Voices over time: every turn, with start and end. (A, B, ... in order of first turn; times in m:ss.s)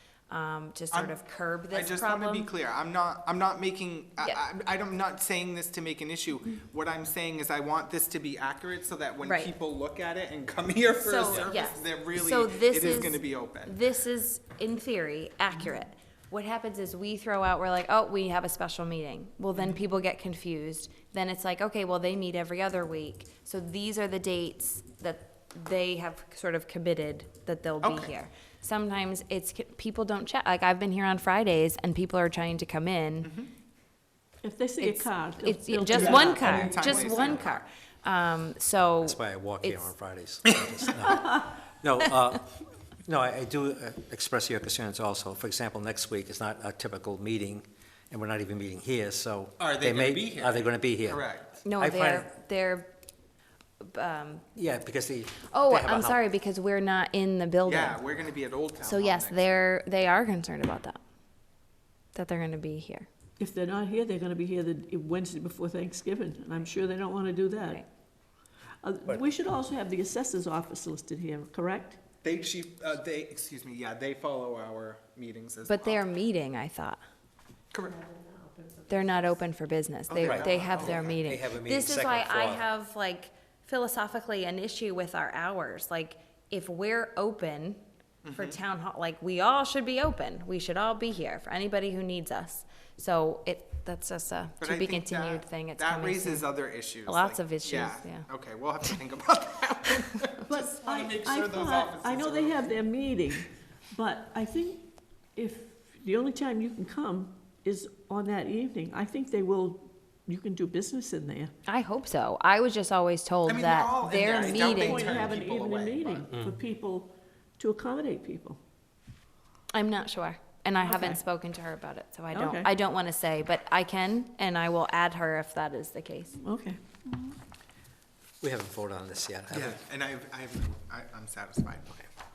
0:00.3-0:02.5 A
0:00.9-0:01.2 B
0:01.7-0:13.8 B
0:09.2-0:09.5 A
0:11.0-0:33.3 A
0:27.8-0:28.1 B
0:33.2-0:33.5 B
0:34.4-0:37.2 C
0:34.8-0:39.9 A
0:35.9-0:37.6 B
0:39.0-0:52.3 D
0:40.5-0:40.9 B
0:49.6-0:51.5 B
0:51.6-0:52.9 A
0:53.8-0:54.5 A
0:54.6-0:56.2 D
0:55.5-0:58.0 A
0:57.6-0:59.6 B
0:58.8-1:01.0 A
1:02.1-1:03.1 A
1:03.4-1:07.8 C
1:07.6-1:07.8 A
1:08.8-1:12.0 C
1:12.2-1:16.0 B
1:15.7-1:17.0 A
1:17.7-1:18.0 B
1:17.9-1:19.2 C
1:18.9-1:27.8 A
1:20.1-1:21.2 B
1:20.2-1:22.7 D
1:28.2-1:28.6 B
1:28.3-1:36.5 A
1:34.6-1:42.8 B
1:37.0-1:38.3 A
1:40.5-1:51.5 C
1:51.7-1:55.2 A
1:53.5-1:56.3 B
1:54.2-1:58.6 C
1:56.3-1:56.6 D
1:59.7-2:06.4 A
2:00.8-2:01.2 C
2:02.3-2:02.7 C
2:06.4-2:07.4 C
2:08.4-2:09.8 D
2:09.5-2:12.0 B